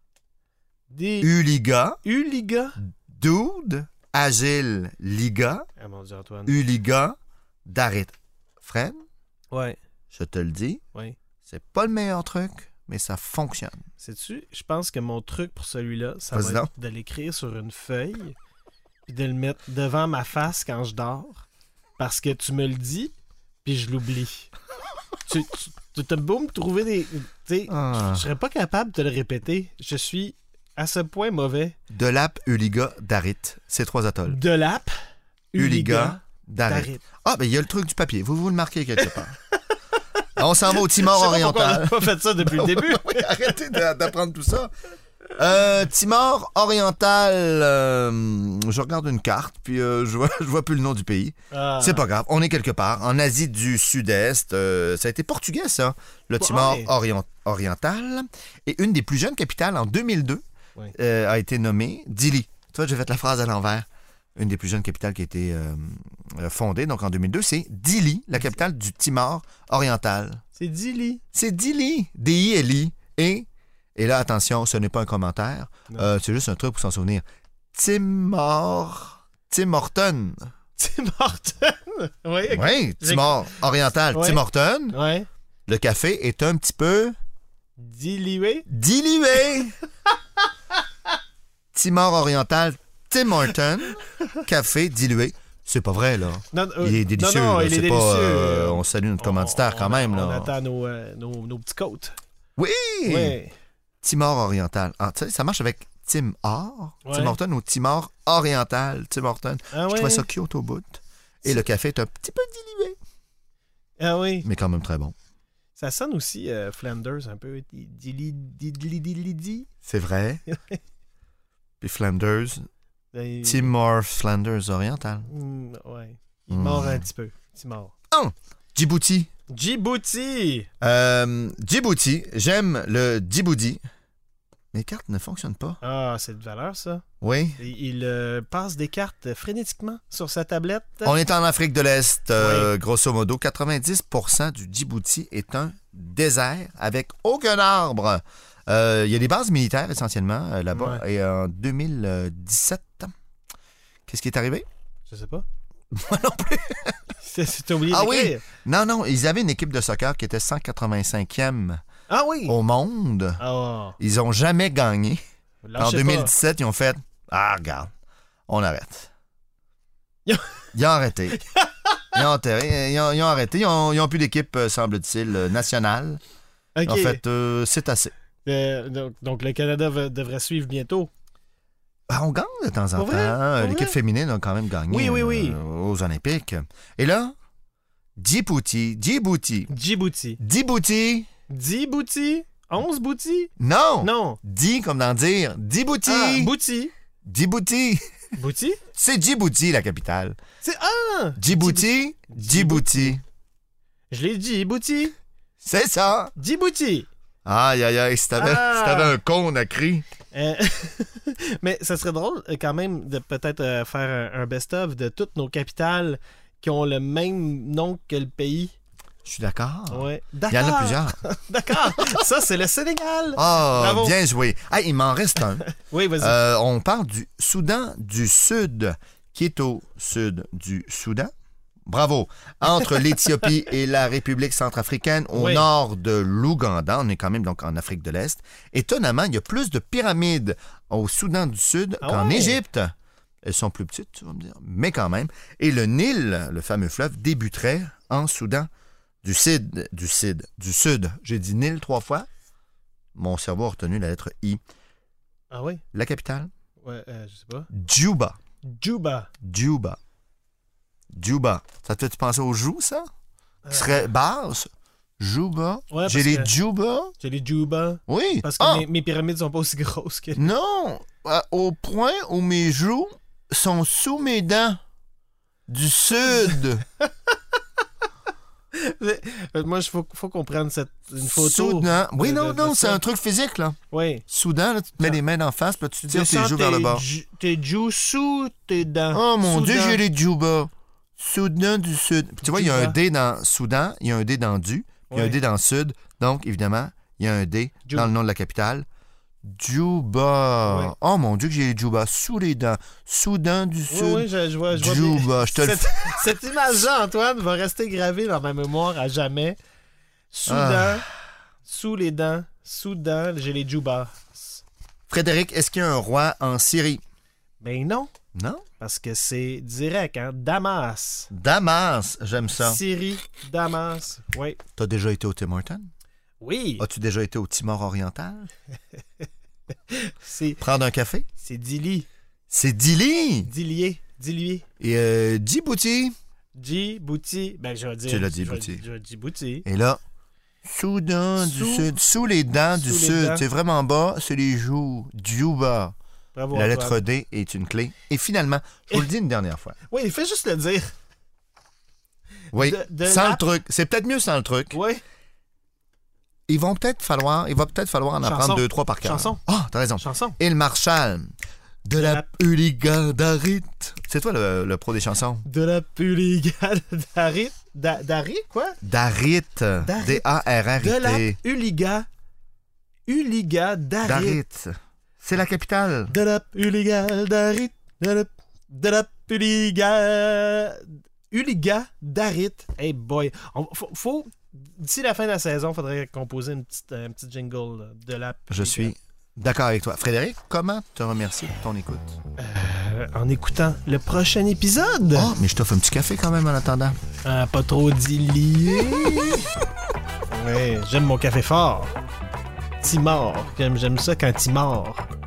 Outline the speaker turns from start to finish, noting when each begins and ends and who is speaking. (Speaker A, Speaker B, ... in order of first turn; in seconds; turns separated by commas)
Speaker A: 0.9-1.3, Speaker B: 1.2-2.0, Speaker A: 2.0-2.8, Speaker B: 2.9-5.7, Speaker A: 5.8-6.6, Speaker B: 6.5-9.0, Speaker A: 9.5-9.8, Speaker B: 10.1-10.8, Speaker B: 11.4-13.8, Speaker A: 14.0-18.4, Speaker B: 16.3-16.7, Speaker A: 19.1-21.4, Speaker A: 22.0-23.1, Speaker A: 23.6-24.5, Speaker A: 25.3-31.8, Speaker B: 27.7-28.2, Speaker B: 31.9-34.4, Speaker A: 34.3-35.0, Speaker A: 35.5-37.0, Speaker B: 35.6-39.4, Speaker B: 40.4-44.7, Speaker A: 40.7-43.6, Speaker B: 45.3-60.4, Speaker A: 51.5-52.1, Speaker A: 56.4-56.9, Speaker B: 60.9-70.4, Speaker A: 70.6-71.2, Speaker B: 71.3-80.5, Speaker A: 80.8-83.5, Speaker B: 82.5-85.0, Speaker A: 84.1-85.3, Speaker B: 85.7-87.2, Speaker A: 87.8-88.7, Speaker B: 88.7-89.8, Speaker B: 91.7-100.5, Speaker A: 96.5-102.2, Speaker B: 102.6-103.4, Speaker A: 103.1-103.5, Speaker B: 104.0-113.0, Speaker A: 107.0-107.4, Speaker A: 109.7-110.3, Speaker A: 114.0-114.5, Speaker B: 114.4-115.1, Speaker A: 115.8-119.7, Speaker B: 119.8-120.4, Speaker A: 120.5-120.8, Speaker B: 121.8-122.6, Speaker A: 123.1-123.7, Speaker B: 123.4-125.3, Speaker A: 125.3-127.9, Speaker B: 126.5-127.1, Speaker B: 128.1-129.3, Speaker A: 129.5-130.7, Speaker B: 130.8-133.8, Speaker B: 134.7-135.8, Speaker A: 135.8-137.0, Speaker B: 137.2-137.6, Speaker A: 137.6-141.2, Speaker B: 141.1-153.1, Speaker A: 142.4-142.7, Speaker A: 150.7-151.0, Speaker B: 154.1-154.7, Speaker A: 155.1-155.5, Speaker B: 155.9-157.0, Speaker A: 157.2-158.4, Speaker B: 157.9-161.8, Speaker A: 162.1-162.6, Speaker B: 162.5-163.4, Speaker A: 163.4-164.0, Speaker B: 164.0-165.2, Speaker A: 165.6-166.3, Speaker B: 165.8-167.9, Speaker B: 168.5-169.1, Speaker B: 170.7-171.4, Speaker A: 171.4-172.2, Speaker B: 172.1-176.2, Speaker A: 176.8-177.2, Speaker B: 176.8-178.1, Speaker A: 178.5-181.1, Speaker B: 182.1-187.3, Speaker A: 182.9-184.0, Speaker A: 184.9-185.6, Speaker B: 188.2-189.7, Speaker A: 189.7-190.4, Speaker B: 190.4-191.3, Speaker A: 191.5-194.4, Speaker B: 193.6-196.5, Speaker A: 196.1-196.9, Speaker B: 197.2-198.0, Speaker A: 198.4-198.8, Speaker B: 198.9-200.4, Speaker A: 200.6-203.2, Speaker B: 201.4-203.2, Speaker A: 204.1-205.2, Speaker B: 205.6-206.3, Speaker A: 206.4-207.1, Speaker B: 207.4-210.1, Speaker A: 208.3-209.2, Speaker A: 210.3-218.7, Speaker B: 219.2-221.2, Speaker A: 219.9-224.2, Speaker B: 223.4-231.3, Speaker A: 225.7-226.4, Speaker B: 231.9-242.9, Speaker A: 235.3-235.7, Speaker A: 242.0-242.6, Speaker B: 243.4-248.7, Speaker B: 249.2-252.3, Speaker B: 253.2-254.6, Speaker A: 255.5-255.8, Speaker B: 255.9-256.5, Speaker A: 256.8-257.7, Speaker B: 257.7-258.4, Speaker A: 258.6-259.3, Speaker B: 259.4-260.0, Speaker B: 261.1-263.1, Speaker A: 263.7-264.1, Speaker B: 263.7-264.7, Speaker B: 265.2-267.1, Speaker A: 265.9-266.5, Speaker A: 267.2-270.5, Speaker B: 268.1-268.9, Speaker B: 270.4-274.8, Speaker B: 275.7-276.9, Speaker A: 278.7-283.0, Speaker B: 281.2-283.8, Speaker A: 283.9-284.2, Speaker B: 284.3-287.0, Speaker A: 286.0-290.0, Speaker B: 289.1-298.9, Speaker A: 292.4-293.0, Speaker A: 295.1-295.4, Speaker B: 299.4-306.3, Speaker A: 300.6-300.9, Speaker A: 303.9-309.6, Speaker A: 310.3-311.1, Speaker B: 310.5-311.0, Speaker A: 311.7-314.6, Speaker B: 315.1-317.0, Speaker A: 317.6-318.1, Speaker B: 318.4-318.6, Speaker A: 318.8-321.3, Speaker B: 321.3-322.8, Speaker A: 322.6-324.6, Speaker B: 324.8-325.9, Speaker A: 326.4-326.8, Speaker B: 326.8-328.5, Speaker A: 329.9-330.6, Speaker B: 330.6-331.3, Speaker A: 331.4-332.1, Speaker B: 332.5-333.5, Speaker A: 333.4-334.6, Speaker B: 334.8-336.1, Speaker A: 336.6-339.7, Speaker B: 338.1-338.8, Speaker B: 339.6-340.0, Speaker B: 340.6-345.9, Speaker A: 341.4-341.9, Speaker A: 342.7-343.4, Speaker A: 346.4-347.0, Speaker B: 346.5-349.8, Speaker A: 349.9-350.9, Speaker B: 352.5-354.8, Speaker A: 352.5-353.4, Speaker A: 354.7-355.0, Speaker B: 356.5-361.3, Speaker A: 358.2-359.4, Speaker A: 360.0-360.4, Speaker B: 361.9-365.5, Speaker A: 361.9-362.2, Speaker A: 365.4-368.8, Speaker B: 368.8-371.4, Speaker A: 369.8-372.1, Speaker A: 373.1-374.4, Speaker B: 374.0-376.1, Speaker A: 376.1-388.9, Speaker B: 388.5-392.2, Speaker A: 392.4-395.3, Speaker B: 395.1-397.0, Speaker A: 397.2-399.5, Speaker A: 400.3-401.9, Speaker A: 402.8-405.1